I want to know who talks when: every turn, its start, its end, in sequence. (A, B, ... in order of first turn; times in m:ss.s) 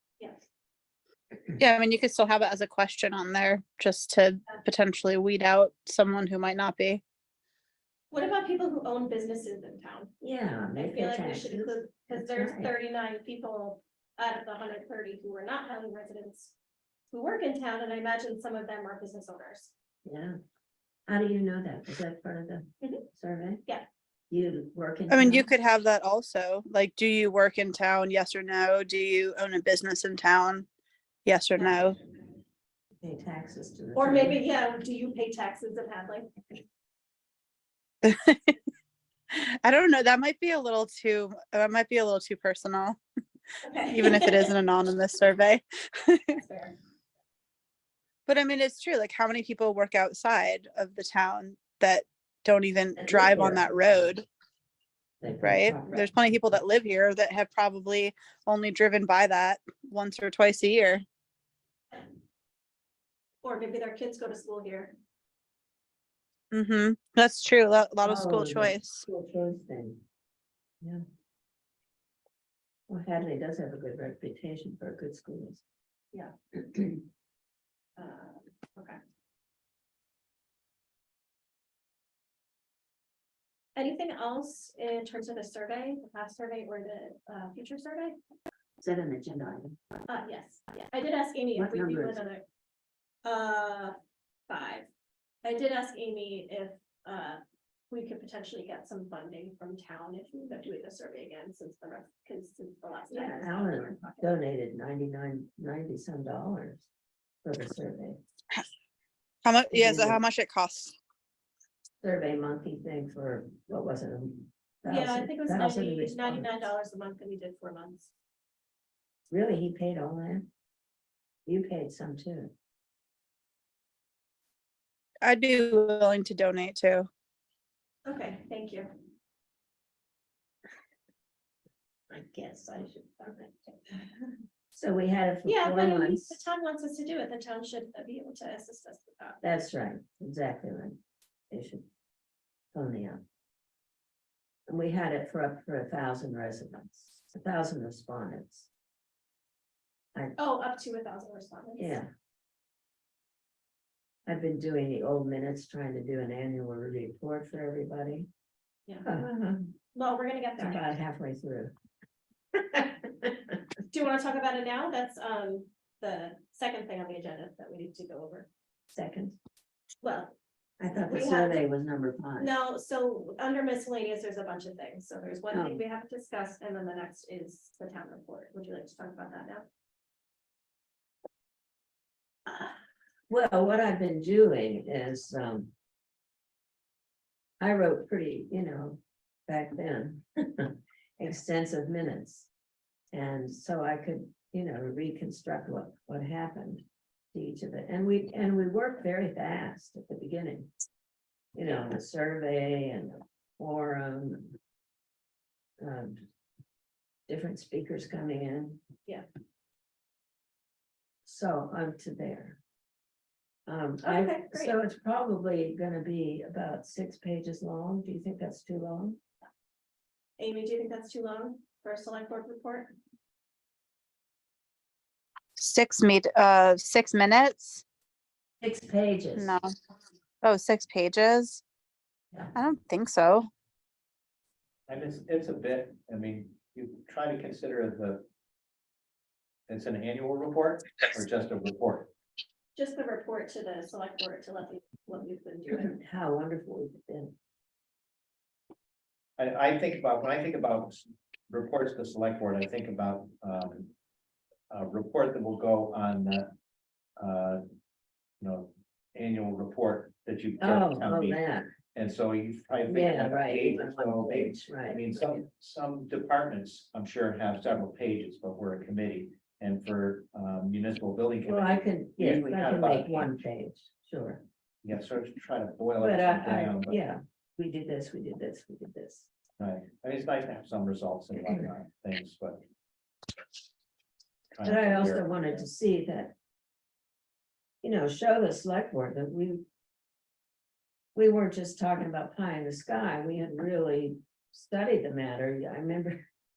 0:00.2-0:00.4 A
0:01.6-0:07.0 B
0:08.1-0:10.1 A
0:10.2-0:12.7 C
0:10.8-0:16.5 A
0:17.1-0:19.7 A
0:20.0-0:20.4 C
0:21.1-0:23.6 C
0:24.3-0:25.5 C
0:25.1-0:30.7 B
0:31.2-0:32.0 B
0:33.0-0:34.4 C
0:34.0-0:36.3 A
0:38.0-0:38.6 B
0:39.3-0:43.0 B
0:43.6-0:44.5 A
0:43.9-0:46.4 B
0:46.3-0:46.7 A
0:48.3-0:54.3 B
0:53.0-0:54.1 C
0:55.2-0:56.1 C
0:55.4-1:01.0 B
1:03.4-1:04.9 A
1:06.5-1:09.0 B
1:08.0-1:10.0 C
1:12.9-1:15.6 C
1:16.6-1:17.0 C
1:18.0-1:19.0 A
1:23.8-1:28.2 A
1:28.8-1:30.0 C
1:30.1-1:32.4 A
1:31.6-1:32.2 C
1:33.2-1:34.0 A
1:34.5-1:34.9 A
1:35.4-1:44.3 A
1:43.1-1:46.9 C
1:47.4-1:48.2 C
1:49.4-1:51.0 B
1:49.7-1:50.2 C
1:52.0-1:56.7 C
1:54.9-1:58.1 A
1:59.3-2:00.5 C
2:01.5-2:02.5 C
2:05.2-2:07.1 B
2:08.1-2:08.9 A
2:12.1-2:13.6 C
2:14.7-2:16.4 C
2:15.4-2:19.4 A
2:19.4-2:21.9 C
2:22.7-2:23.2 C
2:24.7-2:28.7 C
2:30.4-2:32.0 A
2:31.8-2:32.1 C
2:34.3-2:38.3 C
2:39.0-2:39.8 C
2:39.9-2:40.9 A
2:40.6-2:41.7 C
2:42.6-2:43.6 C
2:43.9-2:48.5 A
2:48.9-2:49.4 C
2:50.0-2:50.4 A
2:50.8-2:52.5 C
2:50.9-2:51.6 A
2:52.4-2:59.7 A
2:55.5-2:55.8 C
3:03.3-3:05.7 C
3:07.6-3:12.5 C
3:13.1-3:20.7 C
3:21.6-3:24.6 C
3:25.8-3:26.2 C
3:27.3-3:28.8 C
3:31.2-3:32.6 C
3:33.7-3:39.2 C
3:34.0-3:34.7 A
3:40.4-3:42.9 A
3:45.6-3:47.8 B
3:48.6-3:49.6 C
3:49.4-3:49.7 B
3:50.4-3:51.6 B
3:52.5-3:53.5 B
3:54.9-3:58.3 D
3:59.7-4:02.1 D
4:02.8-4:05.9 A
4:05.7-4:07.3 C
4:09.4-4:13.9 D
4:14.7-4:16.5 D
4:17.2-4:17.6 D
4:18.4-4:21.4 D
4:20.6-4:21.7 C
4:21.9-4:33.3 D
4:22.9-4:25.0 C
4:31.4-4:34.4 C
4:34.8-4:37.0 D
4:36.0-4:39.3 C
4:39.6-4:42.6 D
4:44.5-4:45.6 D
4:44.6-4:46.3 C
4:47.8-4:49.6 C
4:51.2-4:56.2 C